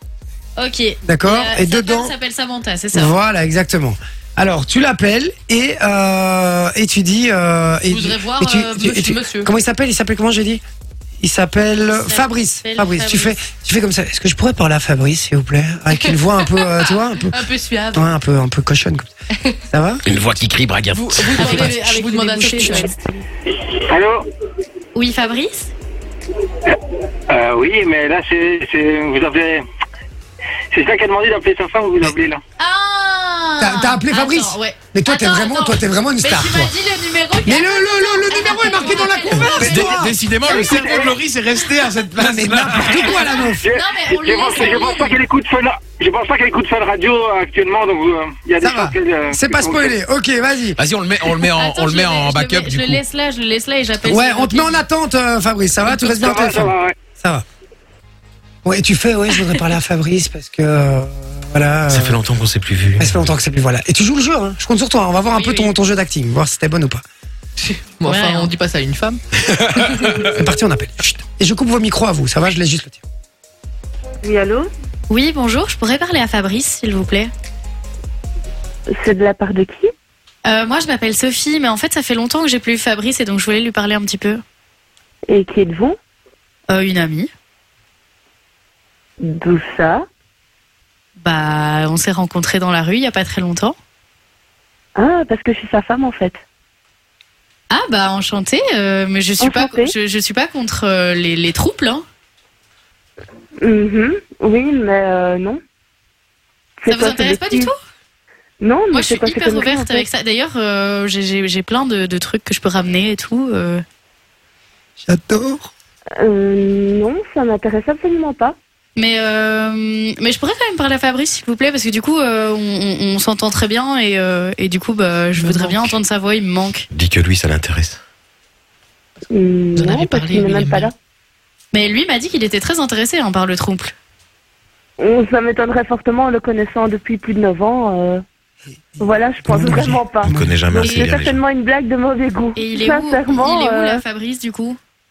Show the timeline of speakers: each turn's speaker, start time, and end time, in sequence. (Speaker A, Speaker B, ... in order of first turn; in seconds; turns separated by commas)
Speaker A: 0.6-3.2, Speaker B: 1.0-2.1, Speaker B: 2.9-10.6, Speaker C: 7.9-9.5, Speaker B: 11.2-19.1, Speaker A: 11.8-13.4, Speaker C: 16.0-18.1, Speaker B: 19.7-20.0, Speaker D: 20.0-21.8, Speaker C: 20.9-22.9, Speaker A: 21.4-23.2, Speaker E: 23.9-24.2, Speaker A: 24.9-25.7, Speaker E: 27.3-29.6, Speaker E: 30.7-32.4, Speaker A: 32.6-40.9, Speaker B: 33.6-36.7, Speaker B: 37.4-40.2, Speaker D: 39.3-43.3, Speaker E: 40.5-41.1, Speaker B: 42.1-43.7, Speaker A: 43.7-45.2, Speaker E: 43.7-49.9, Speaker B: 48.6-50.8, Speaker D: 50.8-53.0, Speaker A: 51.5-54.8, Speaker B: 54.0-57.4, Speaker E: 56.4-56.9, Speaker B: 58.6-62.2, Speaker D: 61.9-63.2, Speaker B: 63.0-67.0, Speaker A: 65.3-65.7, Speaker C: 67.6-69.2, Speaker A: 68.0-68.5, Speaker D: 69.7-70.3, Speaker B: 70.3-73.0, Speaker F: 74.2-74.7, Speaker A: 75.1-77.3, Speaker F: 78.9-79.9, Speaker A: 80.4-84.4, Speaker F: 85.3-86.0, Speaker A: 86.7-87.3, Speaker F: 89.2-90.0, Speaker A: 91.2-93.8, Speaker F: 95.0-96.3, Speaker A: 97.7-102.0, Speaker F: 99.4-99.9, Speaker F: 103.6-105.6, Speaker F: 106.8-107.7, Speaker A: 106.9-107.8, Speaker F: 108.6-110.0, Speaker A: 108.9-113.8, Speaker B: 115.0-115.7, Speaker F: 116.2-118.5, Speaker A: 119.0-126.8, Speaker C: 125.4-125.9, Speaker D: 126.9-128.0, Speaker F: 129.3-130.9, Speaker A: 129.8-130.9, Speaker A: 131.7-133.9, Speaker F: 135.0-138.2, Speaker B: 138.9-140.6, Speaker F: 139.0-144.0, Speaker D: 140.2-141.4, Speaker A: 140.8-141.1, Speaker A: 142.6-144.8